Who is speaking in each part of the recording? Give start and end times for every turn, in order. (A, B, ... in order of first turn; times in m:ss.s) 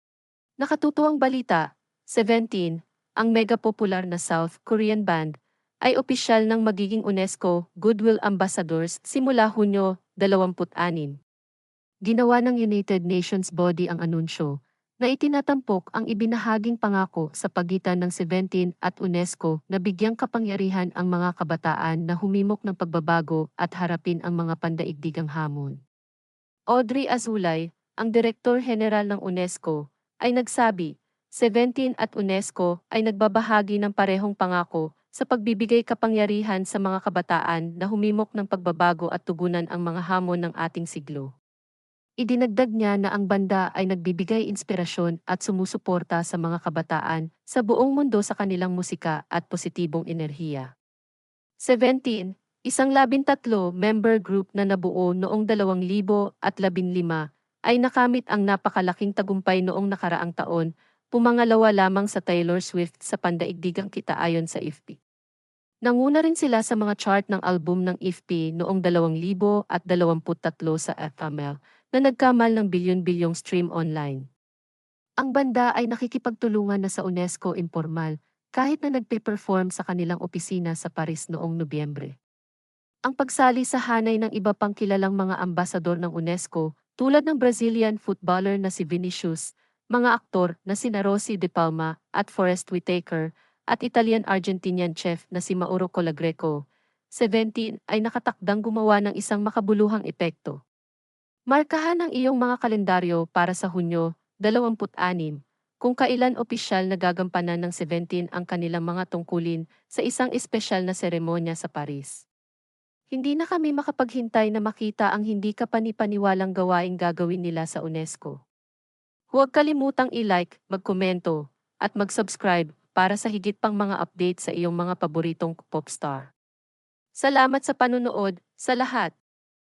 0:00.6-0:01.6 A
0:02.1-0:05.3 A
0:05.8-0:11.1 A
0:12.1-0:14.5 A
0:15.0-0:25.8 A
0:26.7-0:41.3 A
0:42.2-0:50.7 A
0:51.6-1:05.0 A
1:05.8-1:14.2 A
1:15.2-1:22.1 A
1:23.1-1:36.6 A
1:37.2-1:40.6 A
1:41.5-1:52.2 A
1:53.1-1:58.4 A
1:59.3-2:06.3 A
2:07.2-2:09.1 A